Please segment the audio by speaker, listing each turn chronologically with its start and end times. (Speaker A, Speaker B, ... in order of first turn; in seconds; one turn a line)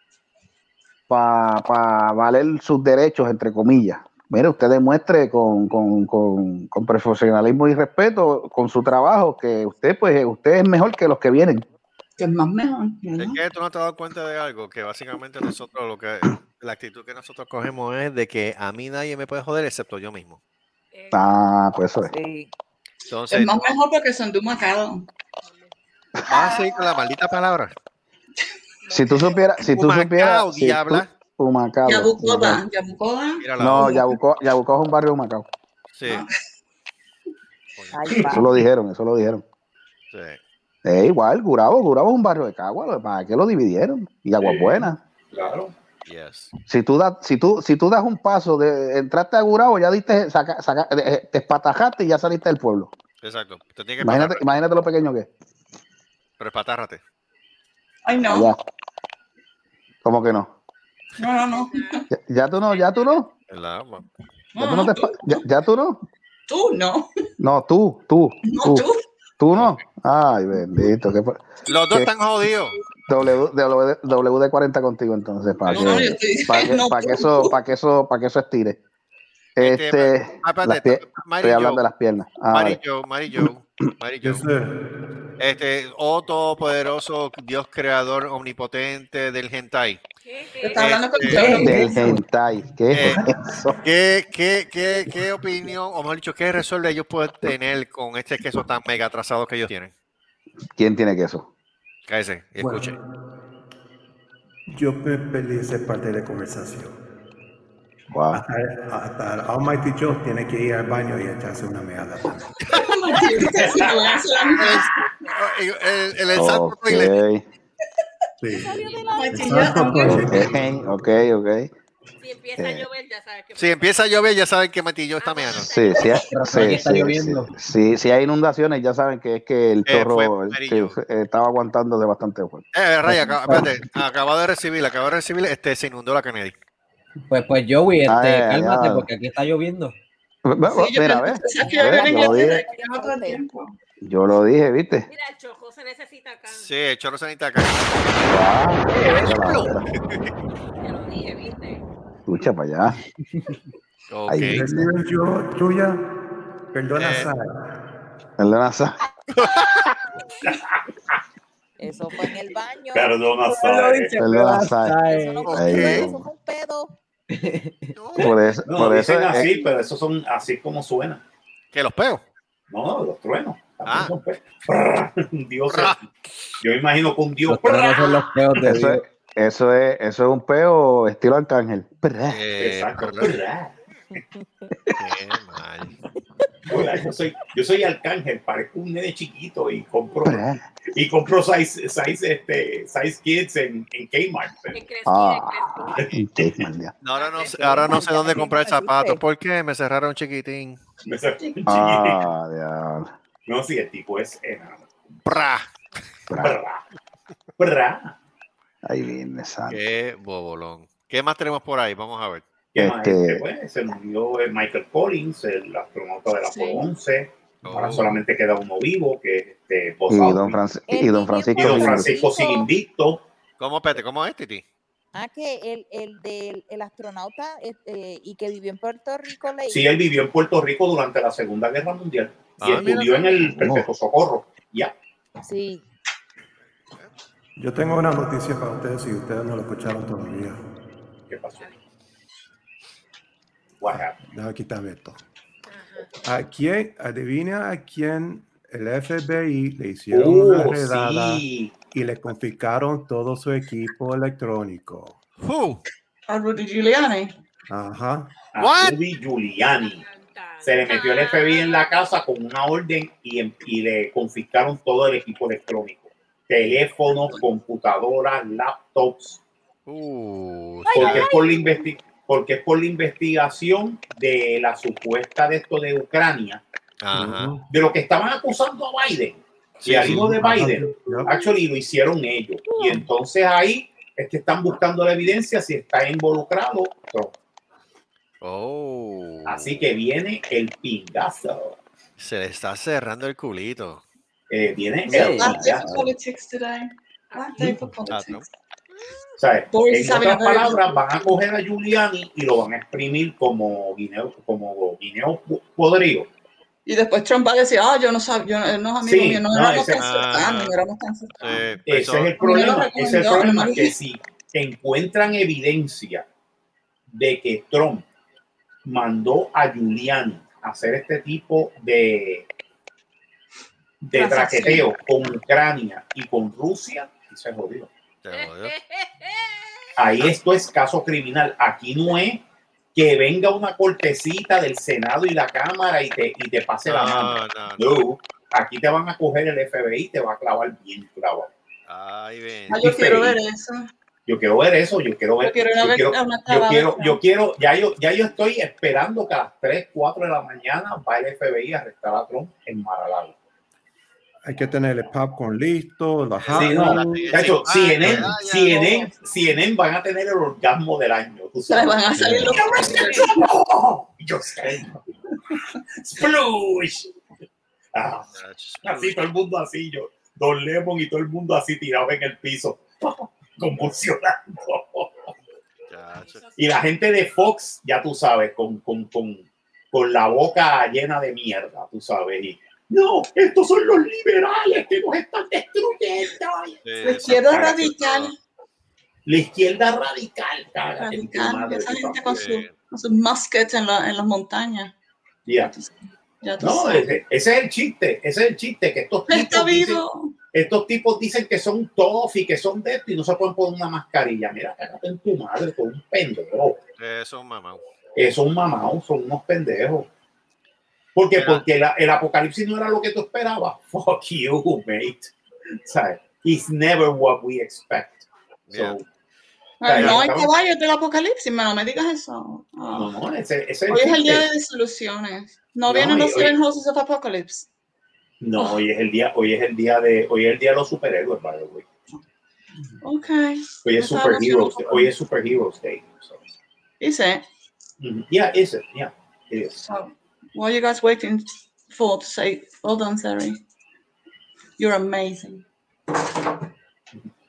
Speaker A: 1.1-11.6
Speaker B: 12.2-13.4
Speaker C: 13.2-20.4
Speaker D: 20.9-21.4
Speaker A: 21.1-22.1
Speaker E: 22.1-22.5
Speaker C: 23.1-23.6
Speaker B: 23.3-25.1
Speaker D: 25.4-25.7
Speaker C: 26.3-27.7
Speaker D: 28.8-29.4
Speaker A: 28.9-32.6
Speaker C: 29.7-31.1
Speaker B: 31.9-34.2
Speaker C: 33.4-34.0
Speaker A: 33.6-35.5
Speaker C: 35.9-36.2
Speaker B: 36.0-36.4
Speaker C: 37.7-38.1
Speaker E: 37.9-38.5
Speaker A: 38.2-39.4
Speaker C: 40.1-40.4
Speaker A: 40.8-45.0
Speaker F: 44.4-45.7
Speaker C: 46.0-46.5
Speaker A: 46.7-52.9
Speaker C: 53.2-54.5
Speaker A: 54.0-55.3
Speaker C: 56.4-57.0
Speaker B: 58.0-58.5
Speaker A: 58.2-58.6
Speaker A: 60.0-60.5
Speaker B: 61.2-62.0
Speaker D: 61.4-62.0
Speaker A: 62.1-63.3
Speaker D: 62.6-63.3
Speaker C: 63.5-64.0
Speaker B: 64.5-65.4
Speaker A: 64.6-66.0
Speaker B: 66.5-67.1
Speaker A: 67.4-68.9
Speaker B: 68.5-69.0
Speaker A: 69.4-72.1
Speaker C: 69.5-69.8
Speaker C: 71.7-72.8
Speaker A: 73.1-78.8
Speaker B: 75.7-77.5
Speaker C: 75.7-76.0
Speaker A: 79.5-82.8
Speaker C: 79.6-81.8
Speaker C: 82.5-84.5
Speaker G: 84.2-84.8
Speaker C: 85.4-90.0
Speaker D: 90.2-90.9
Speaker B: 90.6-92.1
Speaker C: 90.7-91.5
Speaker H: 91.3-92.2
Speaker A: 91.5-93.8
Speaker C: 92.9-93.2
Speaker C: 93.8-99.9
Speaker A: 100.8-101.5
Speaker C: 102.1-103.0
Speaker G: 102.6-102.9
Speaker G: 104.7-107.0
Speaker A: 108.1-108.4
Speaker G: 108.4-112.5
Speaker B: 112.7-114.9
Speaker F: 113.4-113.9
Speaker C: 114.6-117.2
Speaker A: 116.3-117.4
Speaker G: 118.4-118.8
Speaker E: 118.5-120.0
Speaker D: 118.7-119.2
Speaker B: 119.1-120.3
Speaker G: 119.3-121.0
Speaker A: 120.0-121.7
Speaker D: 122.2-124.0
Speaker A: 122.6-122.9
Speaker C: 123.5-125.7
Speaker D: 125.2-127.0
Speaker A: 125.7-133.6
Speaker H: 126.3-127.5
Speaker C: 129.9-131.0
Speaker C: 132.7-136.5
Speaker H: 133.1-133.6
Speaker H: 137.3-139.9
Speaker A: 138.1-139.1
Speaker A: 140.4-142.6
Speaker B: 140.7-143.7
Speaker E: 141.6-143.4
Speaker A: 144.0-145.1
Speaker D: 145.1-146.7
Speaker C: 146.5-148.3
Speaker A: 148.3-149.9
Speaker H: 148.9-149.7
Speaker C: 149.2-150.3
Speaker D: 150.8-151.8
Speaker A: 152.3-153.0
Speaker C: 154.1-154.6
Speaker A: 154.3-154.9
Speaker G: 154.5-156.0
Speaker G: 156.7-157.7
Speaker C: 156.9-157.3
Speaker A: 158.4-158.9
Speaker C: 159.3-160.0
Speaker F: 160.4-160.8
Speaker E: 161.8-163.2
Speaker F: 162.9-164.1
Speaker H: 163.4-165.5
Speaker A: 164.2-165.0
Speaker E: 164.9-166.9
Speaker C: 165.4-166.1
Speaker A: 165.5-166.2
Speaker H: 167.3-167.9
Speaker C: 167.9-168.4
Speaker A: 168.2-169.5
Speaker F: 168.6-171.2
Speaker C: 171.7-172.2
Speaker F: 172.7-176.1
Speaker C: 173.8-174.1
Speaker C: 175.7-176.0
Speaker F: 176.6-178.2
Speaker H: 177.4-179.0
Speaker A: 178.6-182.4
Speaker C: 182.3-183.4
Speaker F: 182.6-183.7
Speaker C: 185.0-185.9
Speaker F: 186.7-194.8
Speaker A: 190.2-190.6
Speaker D: 194.7-196.1
Speaker A: 195.1-196.9
Speaker F: 196.0-196.6
Speaker C: 197.0-200.8
Speaker D: 197.1-198.3
Speaker E: 197.8-199.2
Speaker F: 201.1-202.2
Speaker A: 201.7-203.1
Speaker F: 203.4-204.9
Speaker C: 205.2-205.7
Speaker A: 206.3-206.6
Speaker F: 206.4-206.8
Speaker F: 207.6-208.1
Speaker A: 208.8-209.8
Speaker C: 209.7-212.5
Speaker F: 212.7-220.6
Speaker A: 212.8-213.4
Speaker B: 216.4-216.8
Speaker C: 217.6-218.2
Speaker A: 220.1-222.1
Speaker E: 220.9-222.7
Speaker F: 221.6-223.2
Speaker C: 223.6-224.6
Speaker E: 225.1-229.9
Speaker F: 229.7-234.9
Speaker C: 232.6-233.3
Speaker A: 233.5-233.9
Speaker E: 235.4-235.8
Speaker G: 237.6-240.6
Speaker F: 241.3-241.7
Speaker F: 243.8-244.2
Speaker G: 243.9-245.2
Speaker D: 245.7-246.1
Speaker G: 246.2-255.2
Speaker F: 250.1-251.8
Speaker C: 255.4-255.8
Speaker B: 256.3-257.3
Speaker G: 257.7-258.4
Speaker F: 258.5-260.0
Speaker C: 258.6-259.0
Speaker D: 259.6-262.1
Speaker F: 260.6-269.4
Speaker C: 269.9-271.3
Speaker D: 270.9-271.9
Speaker F: 270.9-276.6
Speaker C: 277.0-277.5
Speaker G: 277.1-277.7
Speaker F: 277.7-287.3
Speaker C: 279.8-280.3
Speaker G: 280.0-281.4
Speaker D: 282.7-282.9
Speaker C: 288.4-289.8
Speaker F: 289.4-291.8
Speaker C: 292.2-294.0
Speaker F: 294.5-295.9
Speaker H: 295.1-296.1
Speaker B: 295.2-298.4
Speaker D: 297.3-297.8
Speaker C: 298.1-298.4
Speaker D: 298.9-299.4
Speaker F: 299.4-306.3
Speaker B: 299.7-301.0
Speaker B: 306.9-311.6
Speaker F: 309.0-310.0
Speaker C: 310.0-310.7
Speaker C: 311.4-312.3
Speaker F: 311.9-316.2
Speaker B: 312.4-313.9
Speaker F: 317.1-318.1
Speaker F: 318.8-322.5
Speaker F: 324.0-327.9
Speaker B: 324.1-324.9
Speaker C: 328.2-328.7
Speaker D: 328.3-330.1
Speaker F: 330.0-332.4
Speaker F: 332.9-341.5
Speaker C: 336.9-338.0
Speaker C: 341.9-342.8
Speaker B: 342.7-343.9
Speaker F: 342.8-343.4
Speaker F: 344.2-353.3
Speaker B: 345.4-347.2
Speaker G: 354.4-357.4
Speaker C: 356.4-358.9
Speaker F: 356.5-365.0
Speaker G: 358.0-358.4
Speaker B: 361.7-363.5
Speaker G: 362.2-362.5
Speaker F: 366.0-367.1
Speaker F: 367.9-368.3
Speaker C: 368.3-369.2
Speaker F: 368.8-375.1
Speaker C: 375.9-376.4
Speaker D: 376.1-376.8
Speaker F: 376.6-386.8
Speaker C: 386.8-388.3
Speaker B: 387.0-388.3
Speaker F: 387.5-387.8
Speaker F: 389.2-392.4
Speaker B: 391.0-394.9
Speaker C: 392.3-392.7
Speaker F: 395.4-395.7
Speaker B: 395.6-397.1
Speaker F: 396.6-400.0
Speaker B: 399.3-400.3
Speaker F: 400.5-406.8
Speaker C: 407.0-407.8
Speaker F: 408.1-410.1
Speaker F: 411.1-415.3
Speaker C: 411.3-411.6
Speaker F: 415.8-419.1
Speaker C: 418.7-419.0
Speaker B: 419.8-423.1
Speaker F: 419.8-420.5
Speaker C: 419.9-420.3
Speaker F: 422.9-424.4
Speaker B: 423.9-427.7
Speaker F: 425.9-426.6
Speaker F: 428.4-431.8
Speaker B: 433.0-435.1
Speaker F: 433.8-436.4
Speaker B: 437.0-437.4
Speaker F: 438.0-439.8
Speaker B: 439.8-443.6
Speaker B: 444.8-445.6